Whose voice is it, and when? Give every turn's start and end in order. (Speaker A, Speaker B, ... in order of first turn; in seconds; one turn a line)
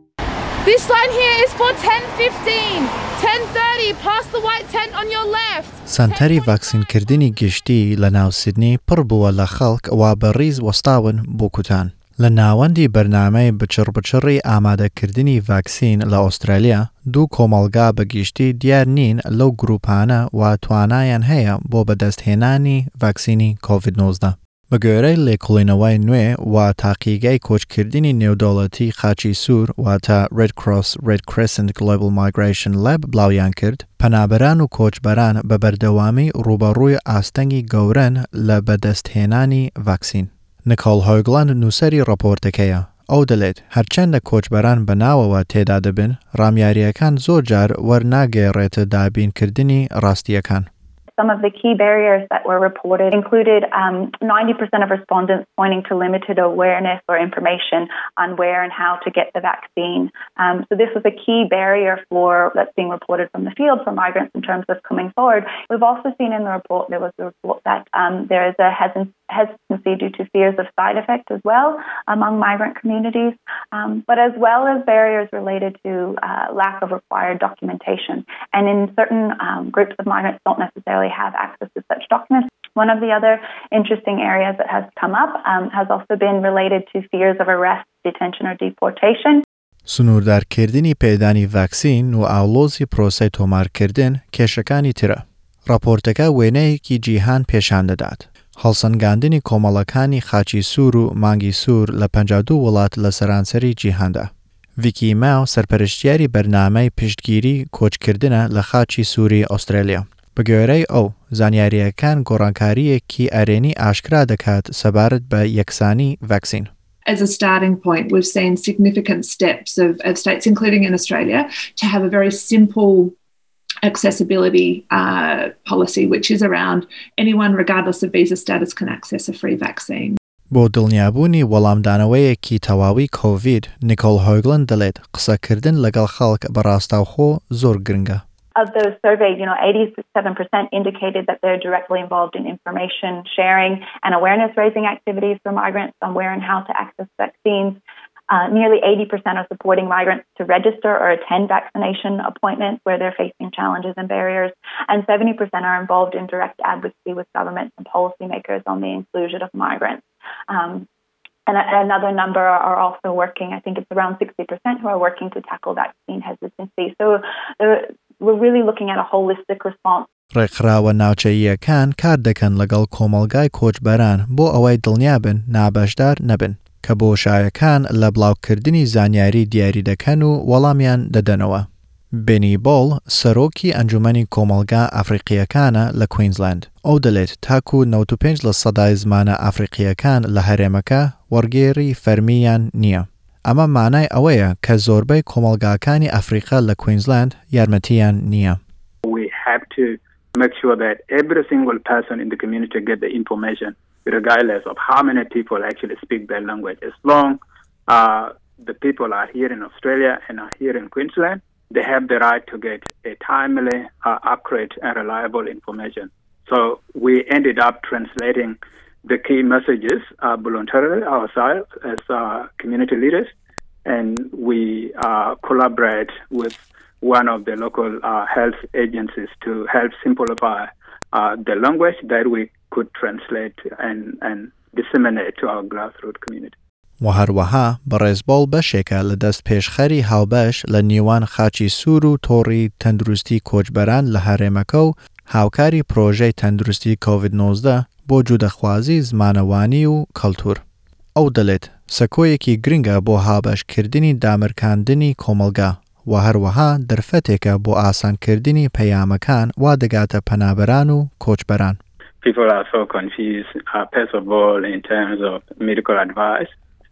Speaker A: 0.6-5.9
Speaker B: 5.9-50.7
Speaker C: 51.2-89.5
Speaker B: 89.9-116.7
Speaker D: 117.1-123.2
Speaker D: 123.8-130.2
Speaker B: 130.5-138.2
Speaker C: 138.6-160.9
Speaker C: 161.5-170.1
Speaker B: 170.3-198.6
Speaker E: 199.1-223.3
Speaker E: 223.9-236.6
Speaker B: 237.0-250.6
Speaker B: 251.2-261.8
Speaker E: 262.2-266.5